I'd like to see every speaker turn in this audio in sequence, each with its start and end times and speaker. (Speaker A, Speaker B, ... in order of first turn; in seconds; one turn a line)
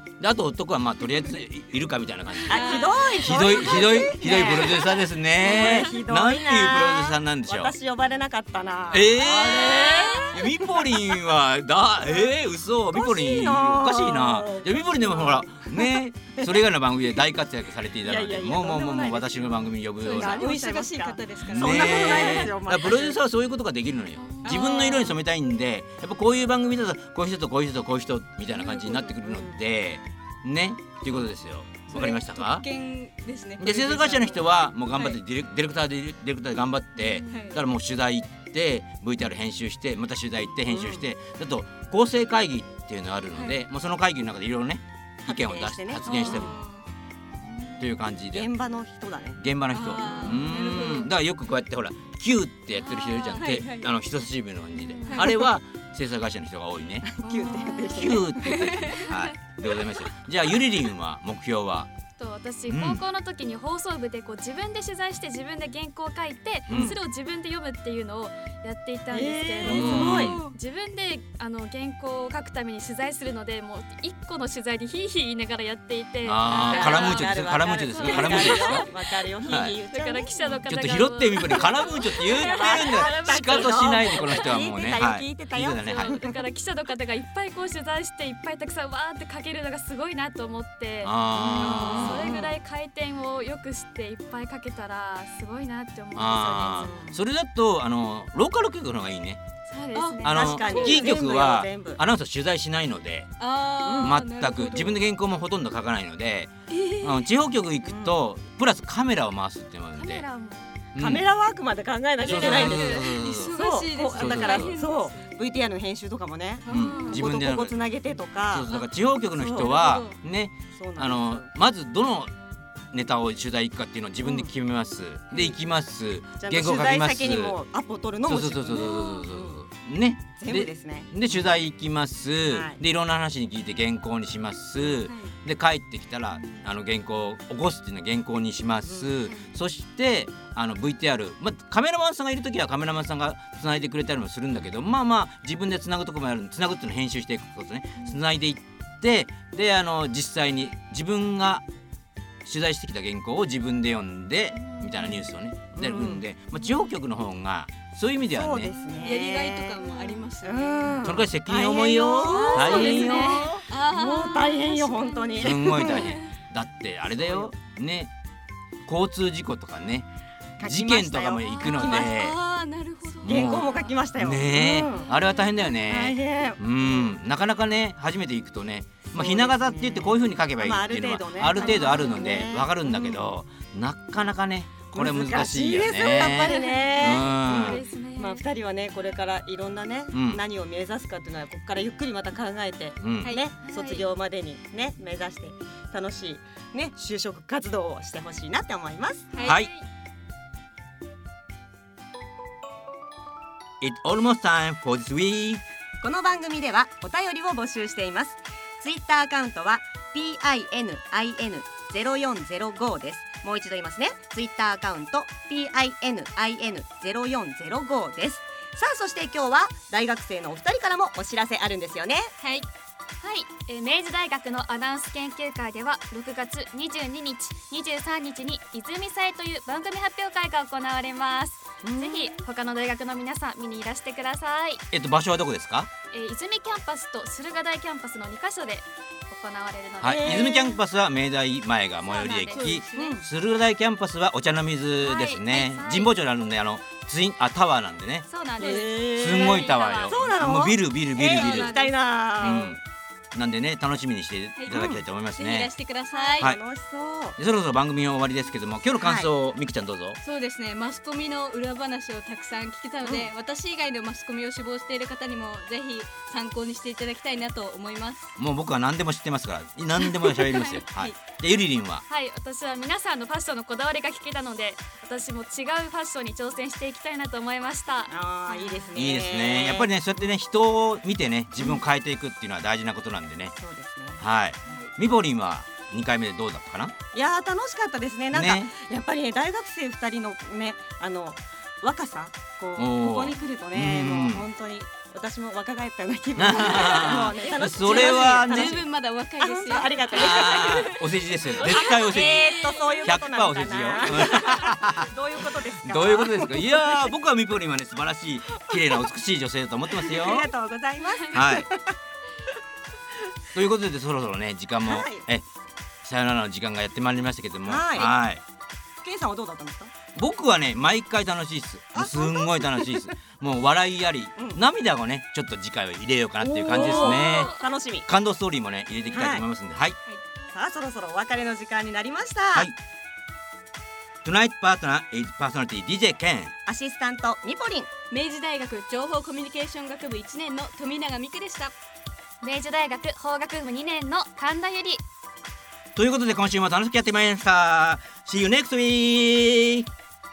Speaker A: 0.2-7.7
Speaker B: 2.5-3.9
Speaker C: 2.5-11.1
Speaker A: 8.9-20.5
Speaker B: 9.3-10.4
Speaker C: 12.9-16.6
Speaker C: 18.0-23.2
Speaker B: 20.0-22.5
Speaker A: 21.6-32.6
Speaker B: 24.2-25.1
Speaker B: 28.5-29.1
Speaker C: 29.2-29.6
Speaker B: 31.9-34.4
Speaker A: 33.6-46.5
Speaker B: 34.9-35.2
Speaker C: 37.0-37.3
Speaker B: 37.3-37.6
Speaker C: 40.7-41.1
Speaker C: 45.2-46.5
Speaker B: 46.0-46.8
Speaker C: 47.5-49.4
Speaker A: 47.8-48.5
Speaker A: 49.4-57.1
Speaker B: 49.7-51.1
Speaker C: 50.0-50.4
Speaker B: 52.7-53.9
Speaker D: 54.8-55.3
Speaker B: 55.1-55.5
Speaker C: 57.0-58.4
Speaker B: 57.2-59.4
Speaker A: 57.9-61.9
Speaker D: 62.2-78.9
Speaker A: 62.7-63.0
Speaker A: 66.7-67.0
Speaker C: 69.1-70.5
Speaker A: 69.7-70.4
Speaker B: 69.8-70.5
Speaker A: 76.2-78.9
Speaker C: 76.6-80.6
Speaker A: 79.4-79.8
Speaker D: 79.9-84.5
Speaker A: 80.7-86.2
Speaker C: 82.2-86.4
Speaker D: 85.8-97.0
Speaker A: 91.0-92.4
Speaker C: 91.3-92.5
Speaker A: 96.2-99.4
Speaker C: 96.8-97.2
Speaker D: 99.7-100.5
Speaker B: 99.9-101.3
Speaker C: 100.2-102.0
Speaker A: 100.2-103.3
Speaker B: 103.4-105.0
Speaker C: 103.8-104.2
Speaker A: 104.0-110.2
Speaker B: 106.7-107.3
Speaker C: 107.8-108.2
Speaker D: 110.0-110.7
Speaker A: 111.0-111.2
Speaker C: 111.0-118.7
Speaker B: 112.2-115.3
Speaker A: 112.3-113.6
Speaker A: 114.1-114.7
Speaker B: 116.7-117.2
Speaker A: 116.7-117.8
Speaker D: 116.8-117.2
Speaker A: 118.5-122.3
Speaker C: 119.4-119.8
Speaker B: 119.6-120.1
Speaker C: 120.7-121.5
Speaker A: 122.9-127.6
Speaker C: 124.2-124.5
Speaker C: 126.4-129.6
Speaker A: 128.3-151.6
Speaker B: 128.8-129.2
Speaker C: 130.4-131.4
Speaker C: 132.5-132.8
Speaker B: 135.1-135.3
Speaker C: 138.8-139.1
Speaker A: 152.4-158.7
Speaker C: 155.8-156.3
Speaker C: 158.3-166.2
Speaker B: 159.0-161.1
Speaker A: 161.0-163.4
Speaker B: 162.3-166.3
Speaker A: 165.4-168.1
Speaker C: 167.2-167.5
Speaker A: 168.9-170.1
Speaker C: 170.6-172.2
Speaker A: 170.6-172.4
Speaker B: 171.8-173.9
Speaker C: 173.2-175.2
Speaker A: 173.2-187.8
Speaker C: 175.8-177.1
Speaker C: 179.1-183.2
Speaker D: 181.6-182.0
Speaker C: 184.9-199.3
Speaker D: 186.4-188.4
Speaker A: 190.1-190.4
Speaker A: 193.0-193.3
Speaker D: 193.6-194.1
Speaker D: 199.3-199.9
Speaker A: 203.8-205.6
Speaker C: 206.0-222.3
Speaker B: 222.4-222.7
Speaker D: 223.2-234.8
Speaker C: 231.8-232.4
Speaker A: 234.9-235.9
Speaker D: 236.1-240.5
Speaker A: 240.0-251.8
Speaker C: 240.0-240.8
Speaker D: 242.1-242.7
Speaker B: 242.5-243.2
Speaker C: 243.0-243.2
Speaker D: 245.0-246.1
Speaker D: 248.3-250.2
Speaker C: 248.6-252.8
Speaker D: 251.2-251.5
Speaker B: 251.3-251.9
Speaker A: 252.4-252.8
Speaker A: 253.3-255.7
Speaker C: 254.7-255.0
Speaker B: 255.4-256.5
Speaker C: 256.1-257.4
Speaker A: 257.4-260.2
Speaker C: 259.0-259.3
Speaker B: 260.2-268.3
Speaker C: 263.0-263.3
Speaker A: 268.4-272.1
Speaker B: 270.0-271.2
Speaker D: 272.1-278.9
Speaker C: 278.1-280.3
Speaker A: 279.0-283.5
Speaker C: 283.6-284.2
Speaker A: 284.2-286.9
Speaker C: 287.1-298.9
Speaker A: 288.3-288.7
Speaker A: 292.8-294.4
Speaker A: 296.4-298.8
Speaker B: 296.7-301.0
Speaker C: 299.4-301.0
Speaker A: 300.1-302.4
Speaker D: 301.6-302.0
Speaker B: 301.6-303.2
Speaker C: 301.7-307.1
Speaker A: 303.0-305.1
Speaker A: 305.8-310.5
Speaker C: 309.9-312.0
Speaker A: 311.3-311.7
Speaker A: 313.6-315.5
Speaker C: 314.8-315.3
Speaker A: 316.0-318.4
Speaker C: 317.6-318.1
Speaker C: 319.0-319.9
Speaker A: 320.1-327.5
Speaker C: 321.9-323.0
Speaker C: 324.4-324.6
Speaker C: 326.5-328.1
Speaker D: 326.6-327.7
Speaker A: 328.1-330.0
Speaker C: 329.1-329.4
Speaker C: 330.5-332.7
Speaker A: 334.2-336.5
Speaker C: 336.7-337.9
Speaker B: 338.1-341.7
Speaker D: 342.4-345.0
Speaker A: 346.0-349.9